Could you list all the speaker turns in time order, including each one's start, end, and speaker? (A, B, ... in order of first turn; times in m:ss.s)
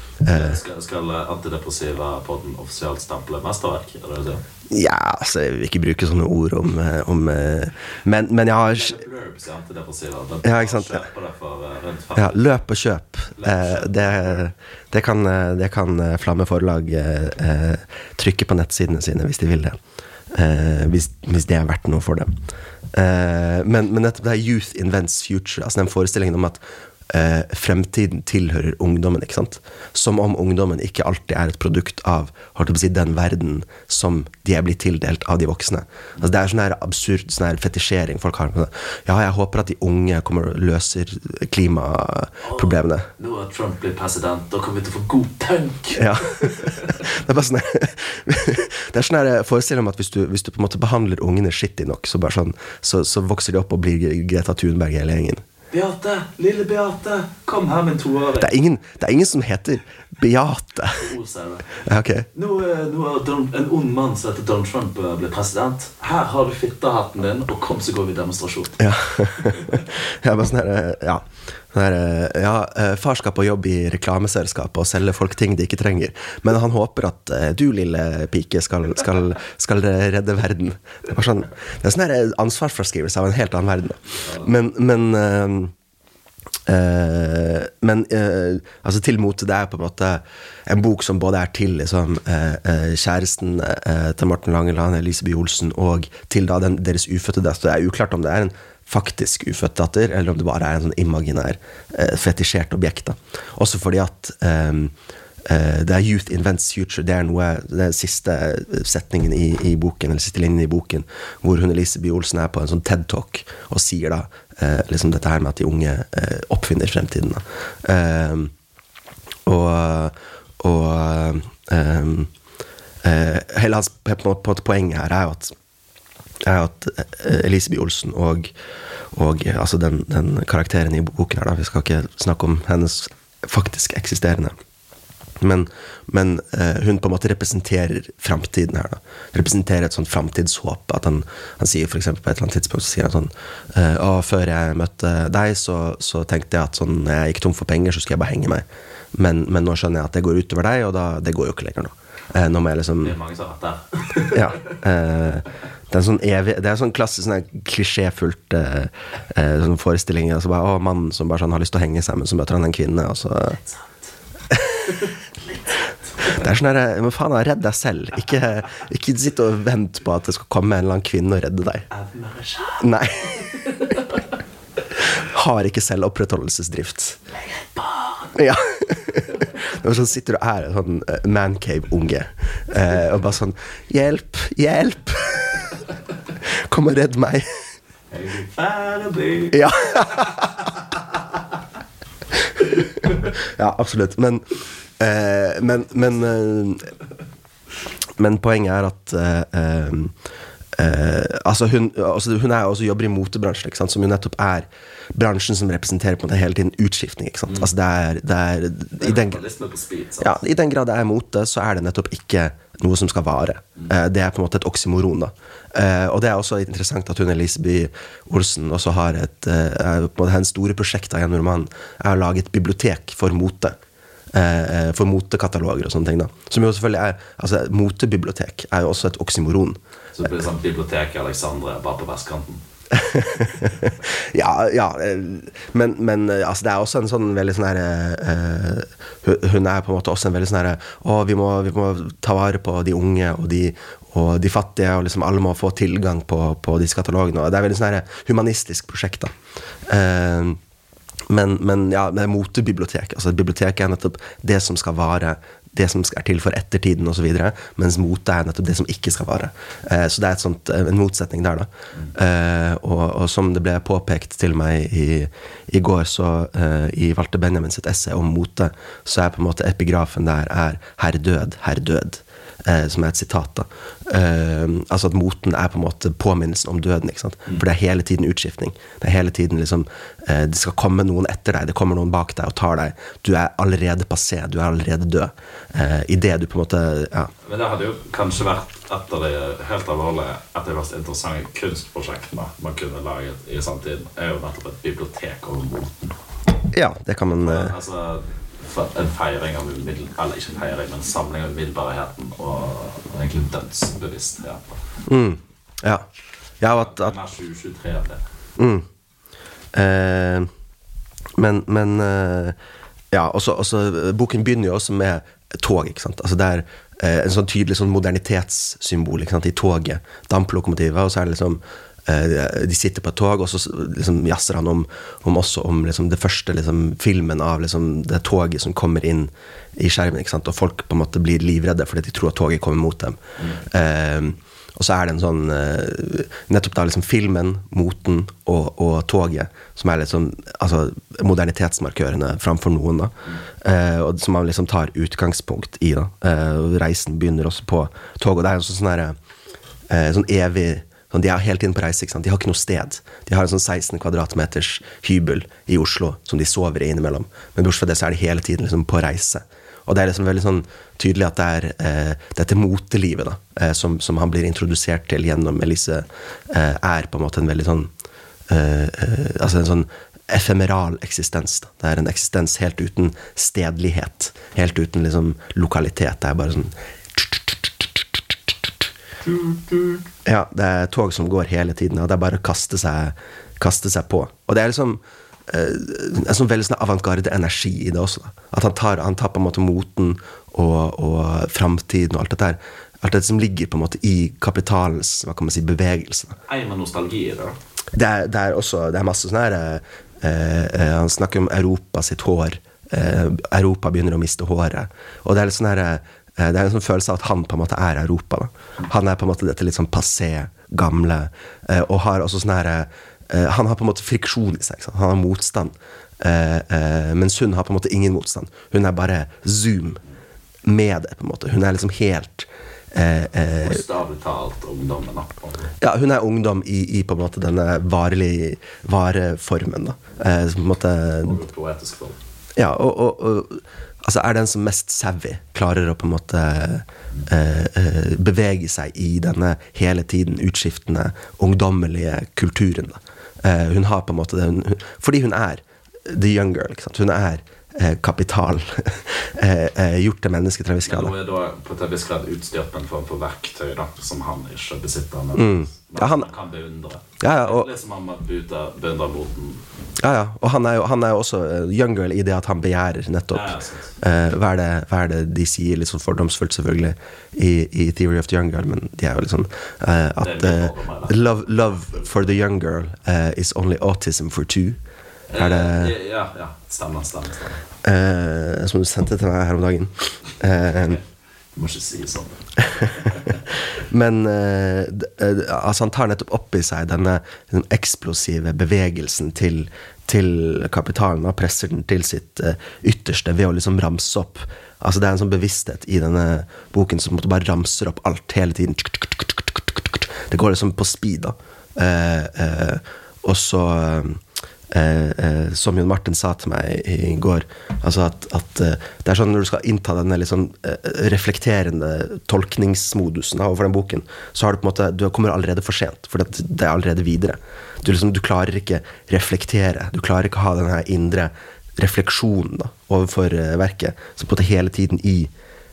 0:00.2-0:00.6 A
0:00.3-0:04.4 B
0:04.7-0:09.0 A
0:08.6-0:12.5 B
0:10.4-0:11.1 A
0:12.2-0:19.8 A
0:13.4-0:14.4 B
0:20.3-0:22.3 A
0:22.9-0:43.1 A
0:42.4-0:47.0 B
0:46.0-0:55.4 A
0:55.7-0:58.5 B
0:58.4-1:01.1 A
1:01.0-1:08.8 B
1:01.8-1:02.3 A
1:08.8-1:25.7 A
1:09.4-1:09.8 B
1:26.7-1:44.9 A
1:45.4-1:58.5 A
1:59.5-2:02.3 A
2:03.0-2:05.6 A
2:06.5-2:08.5 A
2:09.1-2:14.6 A
2:15.4-2:33.2 A
2:33.0-2:34.8 B
2:34.3-2:43.6 A
2:44.5-2:45.1 A
2:46.2-2:46.4 B
2:46.2-2:51.9 A
2:51.9-2:54.3 B
2:52.8-2:53.8 A
2:55.0-2:57.2 A
2:57.4-2:58.4 B
2:58.3-3:07.6 A
3:08.1-3:09.7 B
3:09.5-3:10.6 A
3:12.5-3:16.9 A
3:18.2-3:20.1 A
3:20.8-3:29.4 A
3:29.0-3:30.4 B
3:30.2-3:43.8 A
3:44.3-3:49.8 A
3:50.2-3:52.6 B
3:52.9-4:09.3 A
4:09.9-4:10.6 A
4:11.3-4:47.3 A
4:47.4-4:56.2 B
4:56.7-4:57.7 A
4:57.4-5:04.8 B
5:05.1-5:06.1 A
5:06.6-5:07.2 A
5:06.7-5:08.2 B
5:08.6-5:08.9 A
5:09.7-5:10.5 A
5:11.4-5:12.6 A
5:13.1-5:49.2 A
5:49.9-6:07.9 A
6:08.5-6:17.7 A
6:19.3-6:20.0 B
6:20.2-6:36.4 A
6:36.5-6:37.6 B
6:37.9-7:00.0 A
7:00.6-7:03.8 A
7:03.4-7:05.8 B
7:05.8-7:11.4 A
7:11.2-7:12.2 B
7:12.6-7:31.1 A
7:30.8-7:39.6 B
7:35.3-7:36.3 A
7:37.2-7:37.7 A
7:40.0-7:54.8 A
7:43.3-7:43.9 B
7:50.2-7:52.3 B
7:55.3-7:57.6 B
7:55.4-7:56.0 A
7:57.8-8:01.0 A
8:01.6-8:03.4 B
8:02.6-8:45.3 A